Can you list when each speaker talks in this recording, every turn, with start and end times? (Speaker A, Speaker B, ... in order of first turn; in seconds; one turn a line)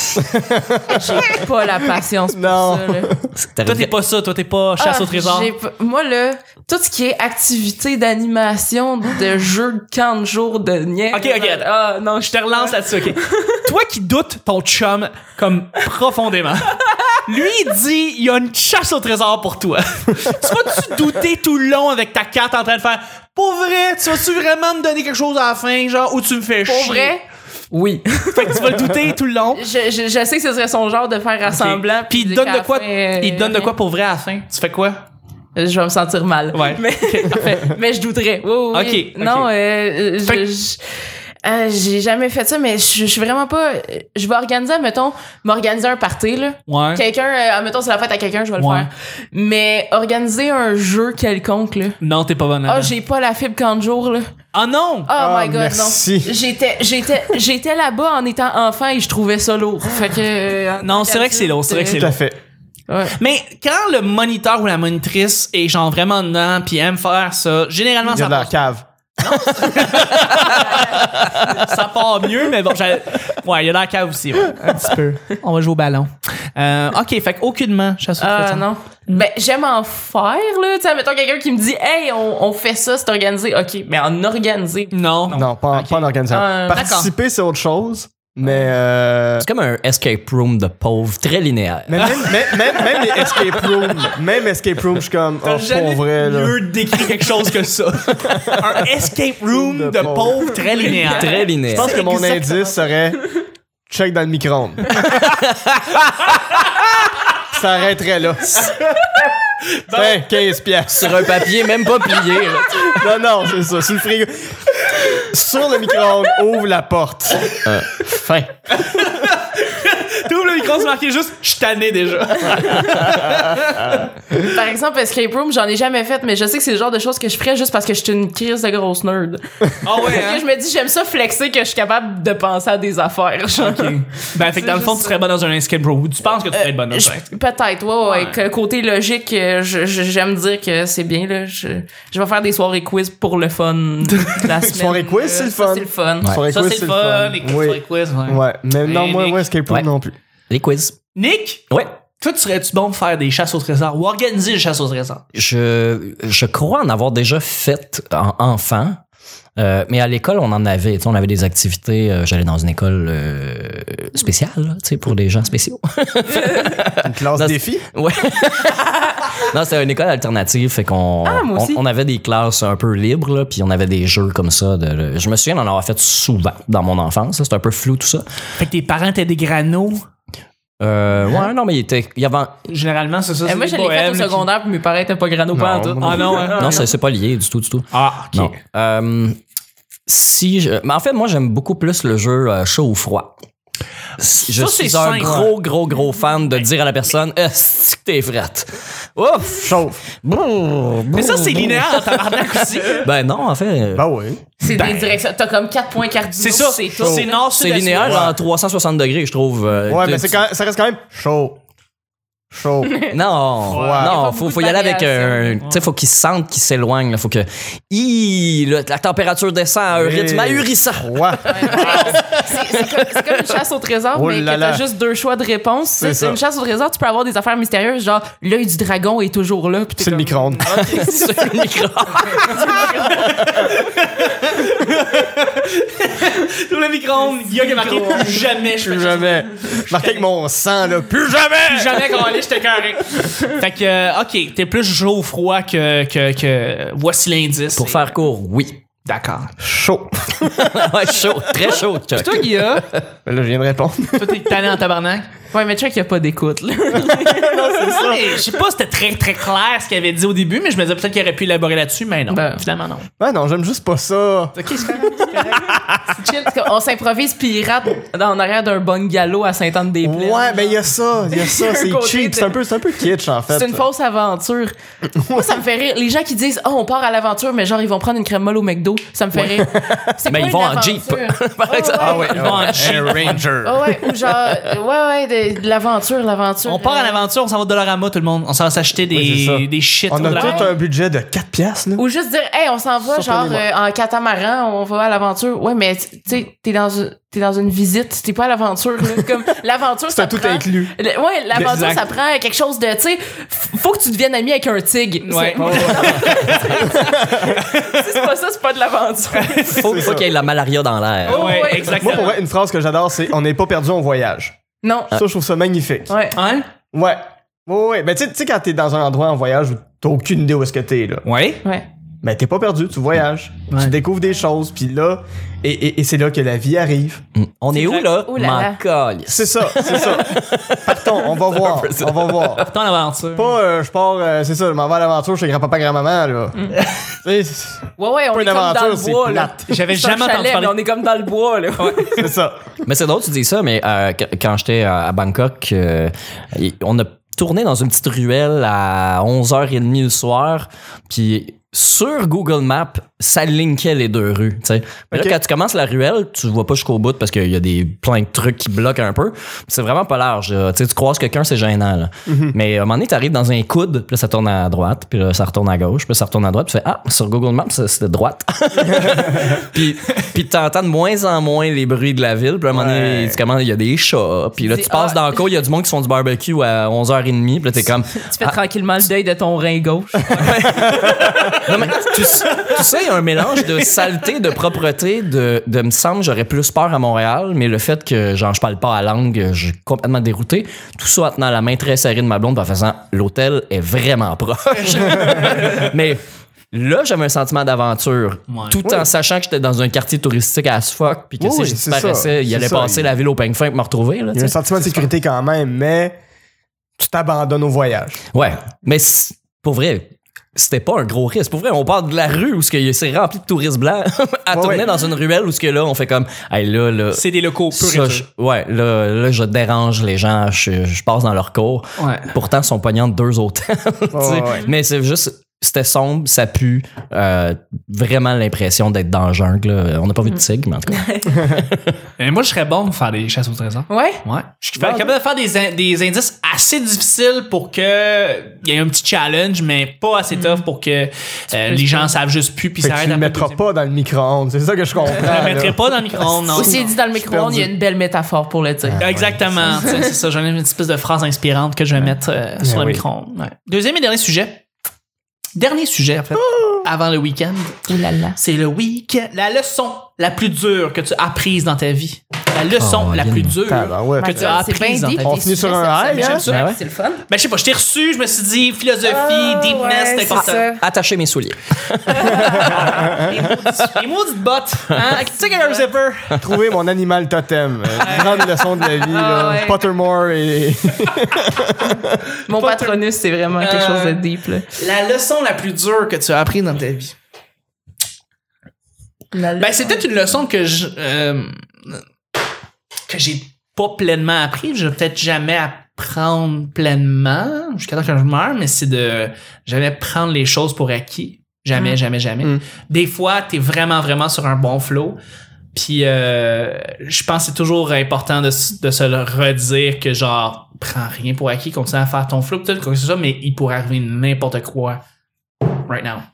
Speaker A: 0.2-1.3
Speaker B: 0.9-3.1
Speaker A: 2.3-3.3
Speaker C: 3.4-3.9
Speaker D: 3.6-5.5
Speaker B: 4.8-13.6
Speaker D: 11.1-27.1
Speaker B: 26.6-28.6
Speaker D: 28.3-29.7
Speaker B: 29.6-33.7
Speaker D: 31.4-35.0
Speaker B: 35.5-40.8
Speaker D: 36.5-37.6
Speaker D: 38.7-39.5
Speaker B: 41.4-52.0
Speaker D: 46.7-47.0
Speaker D: 48.6-48.9
Speaker D: 52.0-52.9
Speaker B: 52.7-54.3
Speaker D: 54.5-55.1
Speaker B: 55.1-62.0
Speaker A: 55.1-56.4
Speaker D: 60.8-62.2
Speaker A: 61.9-62.4
Speaker B: 62.9-63.1
Speaker D: 63.1-68.5
Speaker A: 68.1-68.8
Speaker D: 69.2-79.2
Speaker B: 70.6-71.0
Speaker B: 78.2-84.9
Speaker D: 84.9-86.1
Speaker A: 85.3-89.5
Speaker B: 86.3-86.9
Speaker D: 86.7-87.1
Speaker C: 89.4-92.3
Speaker A: 91.9-96.6
Speaker D: 92.0-93.5
Speaker D: 95.4-102.6
Speaker A: 99.5-100.5
Speaker B: 100.7-101.5
Speaker C: 101.0-101.9
Speaker A: 101.7-103.2
Speaker A: 103.9-105.2
Speaker C: 105.0-106.2
Speaker A: 107.5-108.8
Speaker D: 109.8-110.2
Speaker A: 109.9-111.5
Speaker C: 110.9-113.1
Speaker A: 112.8-118.6
Speaker D: 118.7-124.1
Speaker A: 122.8-123.4
Speaker B: 124.4-135.2
Speaker D: 129.8-130.4
Speaker D: 133.6-137.3
Speaker B: 136.6-146.3
Speaker D: 138.0-138.4
Speaker A: 144.4-150.1
Speaker D: 146.5-149.4
Speaker C: 150.5-150.9
Speaker D: 151.2-151.7
Speaker D: 152.2-155.2
Speaker C: 155.3-159.0
Speaker C: 159.6-178.2
Speaker A: 167.0-167.8
Speaker B: 171.2-171.8
Speaker D: 178.6-180.1
Speaker C: 180.8-182.6
Speaker D: 182.7-184.5
Speaker B: 183.4-186.9
Speaker A: 185.5-186.4
Speaker D: 186.0-186.8
Speaker C: 186.5-189.4
Speaker D: 187.9-188.6
Speaker C: 190.1-193.3
Speaker D: 194.2-195.5
Speaker C: 194.2-202.2
Speaker A: 199.6-200.0
Speaker D: 201.1-203.1
Speaker C: 202.8-204.1
Speaker A: 203.9-204.4
Speaker B: 204.6-207.4
Speaker D: 204.7-205.1
Speaker D: 206.4-208.3
Speaker A: 207.0-207.3
Speaker C: 207.5-210.4
Speaker A: 208.0-208.3
Speaker A: 209.9-211.6
Speaker A: 212.5-213.0
Speaker C: 213.1-223.4
Speaker A: 213.7-214.2
Speaker D: 213.7-214.0
Speaker B: 213.9-215.6
Speaker A: 219.9-222.4
Speaker B: 221.5-231.5
Speaker A: 224.1-224.8
Speaker A: 226.0-226.4
Speaker A: 230.0-230.8
Speaker C: 230.7-233.1
Speaker B: 232.4-233.2
Speaker D: 233.1-240.3
Speaker A: 238.8-242.3
Speaker D: 241.7-248.0
Speaker C: 247.7-248.8
Speaker D: 249.1-249.5
Speaker A: 249.6-250.8
Speaker C: 250.4-253.0
Speaker D: 251.6-252.8
Speaker A: 253.2-254.5
Speaker D: 254.1-255.3
Speaker B: 255.5-257.9
Speaker A: 256.9-258.5
Speaker D: 257.8-263.1
Speaker B: 262.3-262.6
Speaker A: 263.2-264.6
Speaker D: 264.6-265.8
Speaker A: 265.3-266.2
Speaker B: 266.2-270.8
Speaker A: 270.0-273.8
Speaker B: 271.3-272.6
Speaker B: 273.5-282.4
Speaker A: 275.2-275.4
Speaker A: 279.3-280.2
Speaker C: 280.2-283.2
Speaker A: 282.0-284.5
Speaker D: 282.3-283.4
Speaker B: 283.6-287.2
Speaker D: 286.6-290.7
Speaker A: 289.1-292.0
Speaker B: 290.2-290.7
Speaker B: 292.0-309.9
Speaker A: 293.1-293.6
Speaker A: 300.1-300.9
Speaker D: 301.5-302.0
Speaker D: 305.2-306.8
Speaker A: 305.5-307.6
Speaker D: 309.3-310.1
Speaker C: 309.7-311.7
Speaker A: 309.8-310.3
Speaker B: 311.2-312.3
Speaker D: 311.2-312.4
Speaker A: 312.0-314.5
Speaker B: 314.8-315.1
Speaker A: 315.1-316.1
Speaker B: 316.1-316.4
Speaker D: 316.3-316.7
Speaker A: 316.9-321.2
Speaker D: 321.2-321.6
Speaker A: 322.2-327.2
Speaker C: 327.3-332.7
Speaker B: 327.7-328.8
Speaker A: 329.3-332.6
Speaker D: 332.6-333.6
Speaker A: 333.3-339.7
Speaker B: 338.0-342.3
Speaker D: 339.7-340.8
Speaker D: 341.8-342.2
Speaker A: 342.1-342.6
Speaker C: 342.8-378.6
Speaker A: 355.1-355.4
Speaker A: 362.3-362.5
Speaker A: 372.7-373.4
Speaker B: 374.6-375.4
Speaker B: 378.2-380.7
Speaker C: 380.3-404.6
Speaker D: 380.9-382.8
Speaker D: 394.7-395.8
Speaker A: 395.2-395.4
Speaker D: 398.5-398.8
Speaker A: 401.4-403.2
Speaker A: 404.3-406.2
Speaker A: 407.0-408.2
Speaker C: 408.3-432.0
Speaker A: 414.5-414.9
Speaker D: 417.1-418.2
Speaker D: 422.0-422.3
Speaker A: 424.1-424.7
Speaker B: 430.9-431.4
Speaker D: 432.2-443.6
Speaker B: 433.9-434.2
Speaker A: 434.8-435.1
Speaker B: 440.3-440.6
Speaker B: 441.6-442.1
Speaker A: 442.8-447.7
Speaker D: 445.1-446.9
Speaker B: 446.5-449.0
Speaker A: 448.8-449.6
Speaker D: 449.0-454.6
Speaker A: 452.6-453.0
Speaker D: 455.6-457.8
Speaker A: 456.5-456.8
Speaker B: 457.9-458.4
Speaker D: 458.4-465.3
Speaker C: 462.8-463.6
Speaker A: 463.6-464.6
Speaker B: 464.2-467.2
Speaker A: 465.2-466.5
Speaker D: 466.1-466.6
Speaker C: 466.5-466.8
Speaker D: 467.3-470.7
Speaker B: 469.1-470.8
Speaker C: 470.4-473.0
Speaker B: 472.1-472.8
Speaker A: 472.3-473.2
Speaker D: 472.4-476.4
Speaker B: 475.0-475.8
Speaker A: 476.4-482.2
Speaker D: 478.0-478.9
Speaker B: 479.0-479.8
Speaker B: 482.4-484.7
Speaker D: 482.5-483.0
Speaker D: 483.6-484.2
Speaker D: 484.7-487.1
Speaker B: 489.3-490.1
Speaker D: 489.6-492.0
Speaker D: 493.1-505.2
Speaker D: 505.7-515.0
Speaker D: 515.9-516.2